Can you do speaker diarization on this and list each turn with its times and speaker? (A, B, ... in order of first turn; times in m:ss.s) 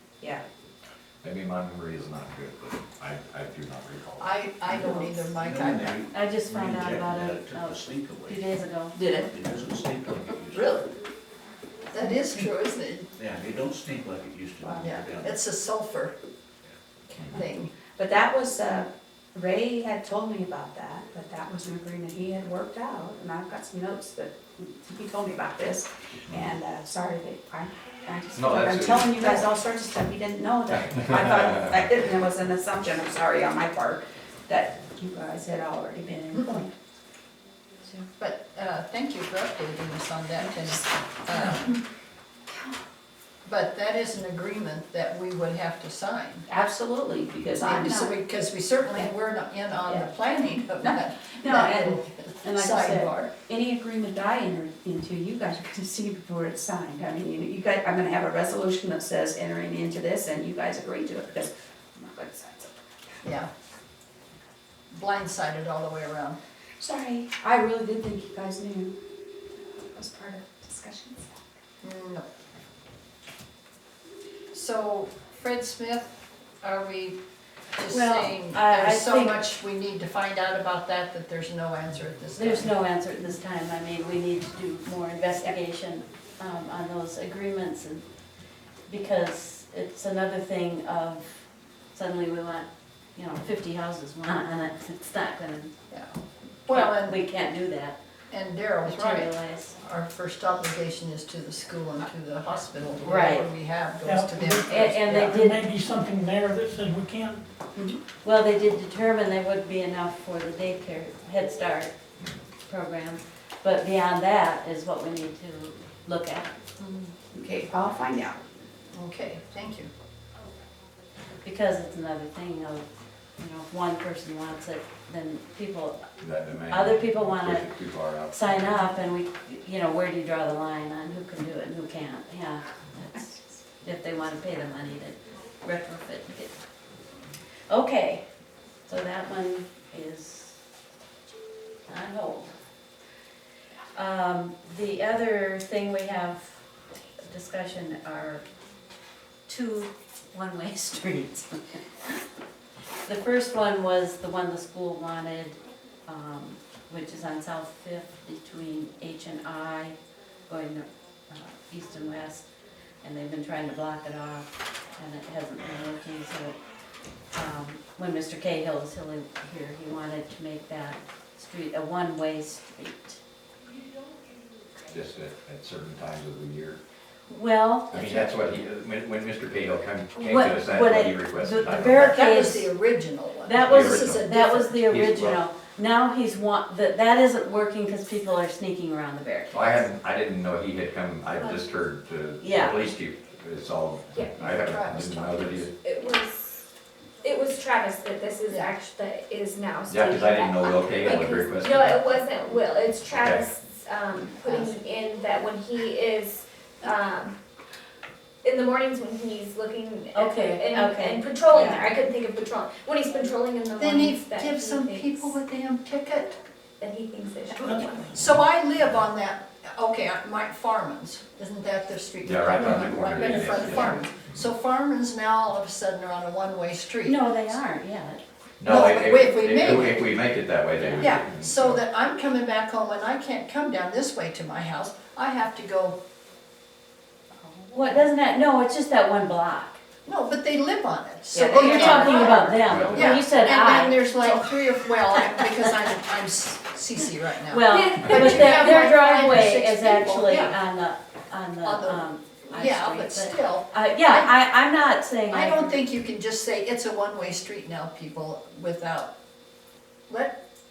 0:01.2-0:04.5 A
0:04.2-0:06.0 B
0:04.7-0:05.3 C
0:04.8-0:08.5 D
0:06.1-0:08.9 C
0:08.9-0:09.3 E
0:09.3-0:10.8 D
0:10.5-0:10.9 B
0:11.9-0:13.1 B
0:13.2-0:15.4 D
0:14.6-0:15.0 E
0:14.8-0:16.1 B
0:17.1-0:17.7 B
0:18.0-0:36.7 E
0:26.3-0:26.6 A
0:28.3-0:29.4 A
0:31.4-0:31.8 A
0:36.3-0:36.6 B
0:38.2-0:41.8 B
0:40.4-0:40.9 E
0:43.4-0:46.4 B
0:46.5-0:48.2 E
0:47.6-0:53.3 B
0:50.8-0:51.8 E
0:51.5-0:53.0 C
0:52.5-1:02.7 E
1:03.2-1:03.5 B
1:04.9-1:06.4 B
1:06.8-1:09.0 E
1:09.6-1:11.4 E
1:11.8-1:12.2 B
1:14.5-1:16.1 B
1:16.6-1:17.2 B
1:17.8-1:22.7 B
1:17.9-1:19.4 C
1:22.3-1:28.0 C
1:28.9-1:35.7 C
1:35.9-1:37.2 B
1:36.7-1:38.0 C
1:38.3-1:45.4 B
1:38.8-1:39.8 C
1:43.0-1:43.5 C
1:44.0-1:47.4 F
1:44.7-1:45.6 C
1:48.2-1:51.9 C
1:52.7-1:56.8 C
1:57.3-1:58.4 E
1:58.9-1:59.9 B
2:01.4-2:02.8 C
2:03.4-2:06.0 C
2:06.2-2:08.6 A
2:06.7-2:07.7 C
2:08.3-2:16.5 C
2:17.7-2:18.2 C
2:18.8-2:20.6 C
2:21.9-2:22.5 C
2:23.9-2:26.6 C
2:27.2-2:28.4 C
2:29.5-2:31.8 C
2:33.0-2:40.0 C
2:40.5-2:42.5 C
2:43.0-2:46.6 C
2:47.3-2:53.2 C
2:54.9-2:56.8 A
2:57.3-2:58.2 C
2:57.9-3:02.1 A
3:00.2-3:02.7 C
3:01.8-3:04.8 B
3:03.4-3:09.6 C
3:03.6-3:05.4 A
3:09.5-3:15.7 A
3:12.4-3:12.8 C
3:14.1-3:14.5 G
3:14.4-3:15.6 B
3:15.8-3:16.6 G
3:17.2-3:27.4 G
3:19.9-3:22.0 A
3:23.1-3:23.4 A
3:24.4-3:24.8 B
3:28.4-3:35.4 G
3:30.1-3:31.3 C
3:31.5-3:31.9 E
3:33.8-3:36.4 B
3:36.8-3:38.1 G
3:38.1-3:47.4 B
3:42.2-3:44.1 A
3:42.6-3:44.1 C
3:47.0-3:48.2 C
3:48.6-3:51.8 A
3:48.6-3:50.1 B
3:51.0-3:56.0 B
3:57.4-3:58.0 E
3:57.7-3:59.8 C
4:00.0-4:10.6 B
4:01.3-4:02.6 E
4:01.6-4:04.4 C
4:02.6-4:03.1 A
4:05.1-4:05.4 C
4:07.5-4:15.8 C
4:11.6-4:14.4 B
4:15.3-4:19.1 B
4:20.1-4:20.4 B